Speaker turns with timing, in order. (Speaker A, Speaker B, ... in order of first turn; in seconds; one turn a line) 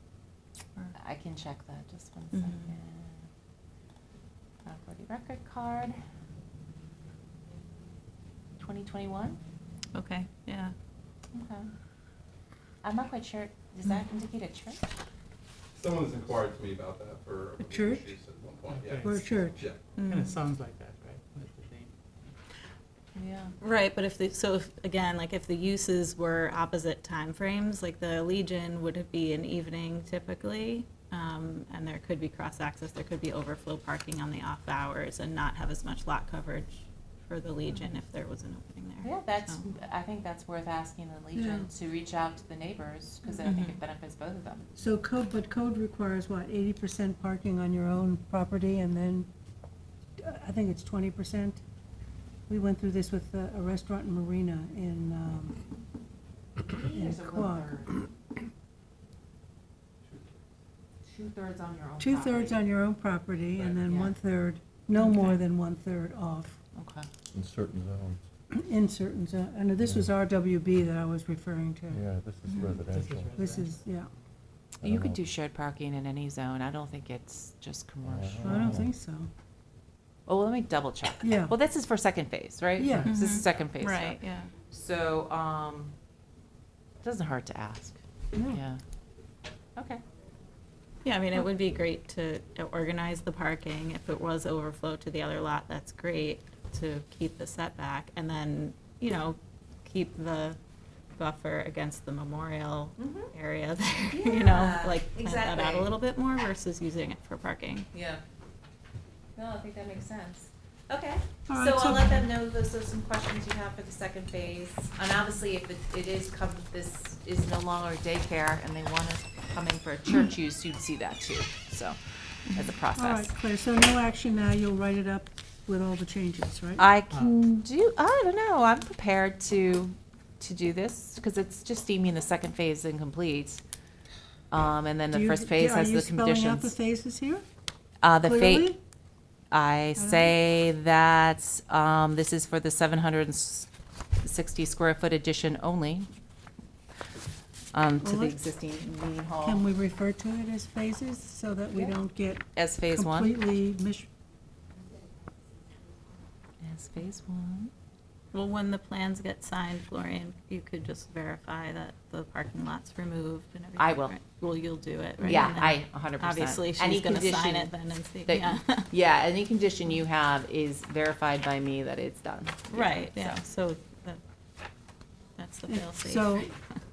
Speaker A: 0.9-3.2
Speaker B: 2.3-2.7
Speaker A: 4.6-6.0
Speaker A: 8.6-9.4
Speaker B: 9.9-10.7
Speaker A: 11.3-11.7
Speaker A: 12.8-14.8
Speaker C: 15.8-19.8
Speaker D: 17.6-18.1
Speaker E: 18.7-19.5
Speaker D: 19.0-19.6
Speaker B: 19.9-20.4
Speaker E: 20.1-21.9
Speaker A: 23.1-23.5
Speaker B: 23.6-39.7
Speaker A: 39.0-44.6
Speaker D: 41.3-41.7
Speaker B: 43.4-43.8
Speaker D: 44.8-49.3
Speaker D: 50.2-51.6
Speaker D: 52.5-55.5
Speaker A: 56.7-58.0
Speaker D: 56.9-57.9
Speaker C: 60.0-60.4
Speaker A: 61.0-62.6
Speaker D: 62.0-66.6
Speaker A: 63.9-64.1
Speaker B: 65.0-65.4
Speaker A: 66.8-67.1
Speaker F: 67.3-68.2
Speaker D: 68.5-72.0
Speaker F: 71.9-73.3
Speaker E: 72.8-73.8
Speaker D: 73.3-74.1
Speaker A: 74.8-78.8
Speaker F: 74.8-75.2
Speaker F: 78.0-78.9
Speaker D: 78.4-79.3
Speaker A: 80.3-85.9
Speaker D: 81.2-81.5
Speaker D: 82.8-83.1
Speaker B: 83.0-84.5
Speaker A: 87.0-88.8
Speaker D: 88.3-88.6
Speaker B: 91.0-100.6
Speaker B: 101.2-107.9
Speaker A: 103.0-103.3
Speaker A: 104.1-106.0
Speaker A: 107.9-108.2
Speaker A: 109.3-122.0
Speaker D: 111.5-112.3
Speaker A: 122.5-123.3
Speaker D: 123.0-126.9
Speaker A: 126.8-133.6
Speaker E: 127.1-127.4
Speaker A: 134.5-136.7
Speaker D: 135.1-137.4
Speaker A: 138.0-138.8
Speaker D: 138.2-138.8
Speaker A: 139.5-143.7
Speaker D: 139.9-140.3
Speaker A: 144.2-146.1
Speaker A: 147.7-149.6
Speaker D: 148.0-148.4
Speaker D: 149.4-154.1
Speaker A: 152.5-153.3
Speaker A: 156.6-157.7
Speaker B: 158.3-168.9
Speaker A: 163.8-164.2
Speaker D: 165.2-165.6
Speaker A: 165.2-167.7
Speaker A: 168.2-173.4
Speaker B: 172.7-174.2
Speaker B: 175.4-176.6
Speaker D: 175.7-176.5